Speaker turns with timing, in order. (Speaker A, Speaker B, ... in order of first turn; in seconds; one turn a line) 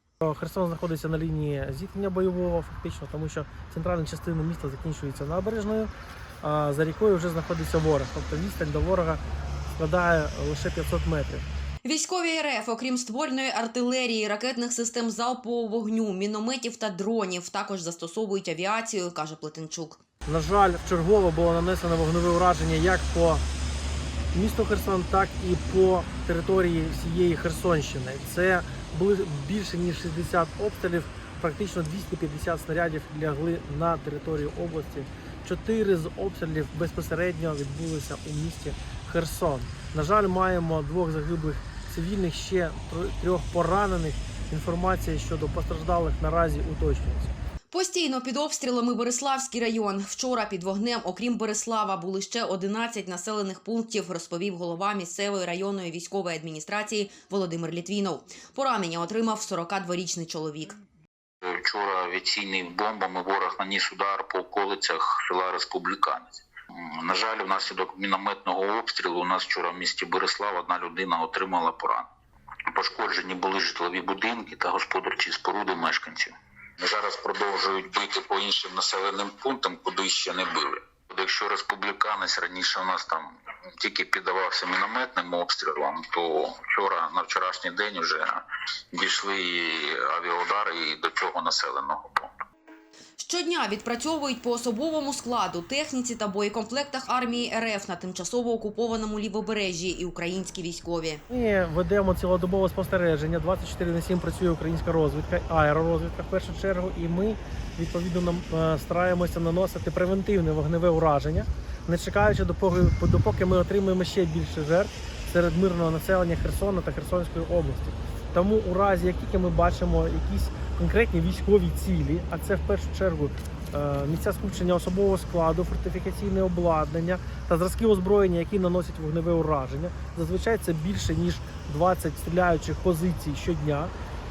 Speaker A: 0.2-5.9
Speaker A: 6.4-11.5
Speaker B: 11.8-20.0
Speaker A: 20.2-23.4
Speaker A: 24.3-47.3
Speaker B: 47.7-60.8
Speaker C: 61.4-72.1
Speaker C: 72.7-92.3
Speaker B: 93.2-101.2
Speaker A: 101.3-133.9